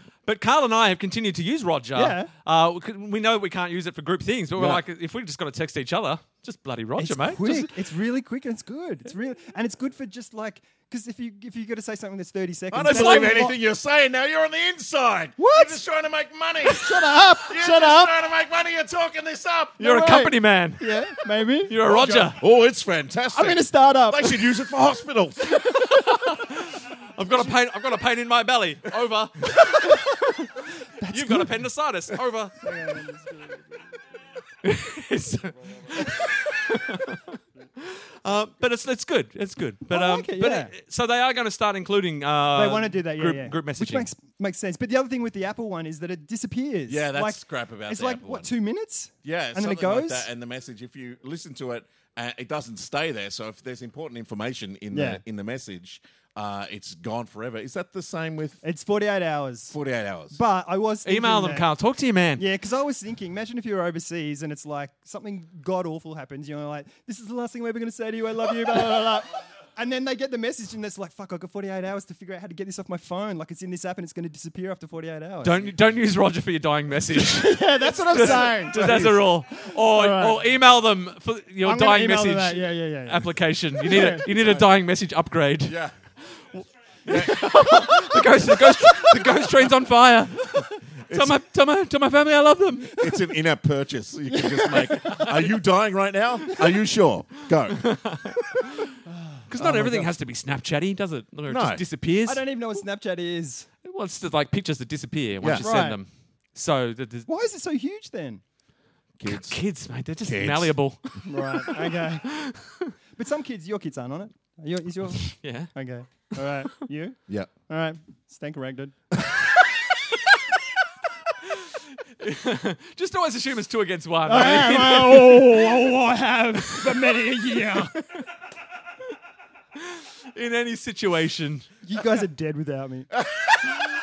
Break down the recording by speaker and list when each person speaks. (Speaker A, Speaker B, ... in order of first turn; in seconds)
Speaker A: 0.2-7.7, 12.9-13.4, 19.8-20.9, 21.7-22.4, 25.6-30.5, 31.1-32.6, 34.6-44.1, 61.0-62.4, 75.4-85.8, 86.5-93.0, 95.0-95.4, 97.7-99.0, 99.5-102.4, 103.8-107.3, 109.3-112.9, 115.2-115.7, 122.2-125.8, 126.6-127.0, 127.7-128.2, 129.8-131.7
Speaker B: 1.9-2.3, 7.0-13.6, 15.4-15.8, 16.6-18.1, 20.0-21.8, 23.3-24.4, 29.7-30.0, 31.0-31.6, 32.6-34.0, 39.9-40.7, 42.5-50.3, 54.9-55.2, 58.6-59.8, 60.3-61.7, 62.4-75.7, 77.1-80.5, 81.6-84.3, 88.7-89.2, 94.3-95.3, 99.1-100.1, 102.3-103.7, 105.6-106.0, 107.3-108.4, 111.2-112.3, 113.2-119.0, 124.3-127.9, 131.8-133.1
Speaker C: 4.6-4.8, 12.7-20.2, 21.8-25.5, 46.9-48.5, 49.2-58.6, 59.7-60.4, 78.0-79.1, 84.3-84.7, 85.7-85.9, 87.1-87.4, 91.1-91.4, 93.0-97.9, 101.5-101.8, 105.4-105.7, 109.2-109.6, 110.2-110.7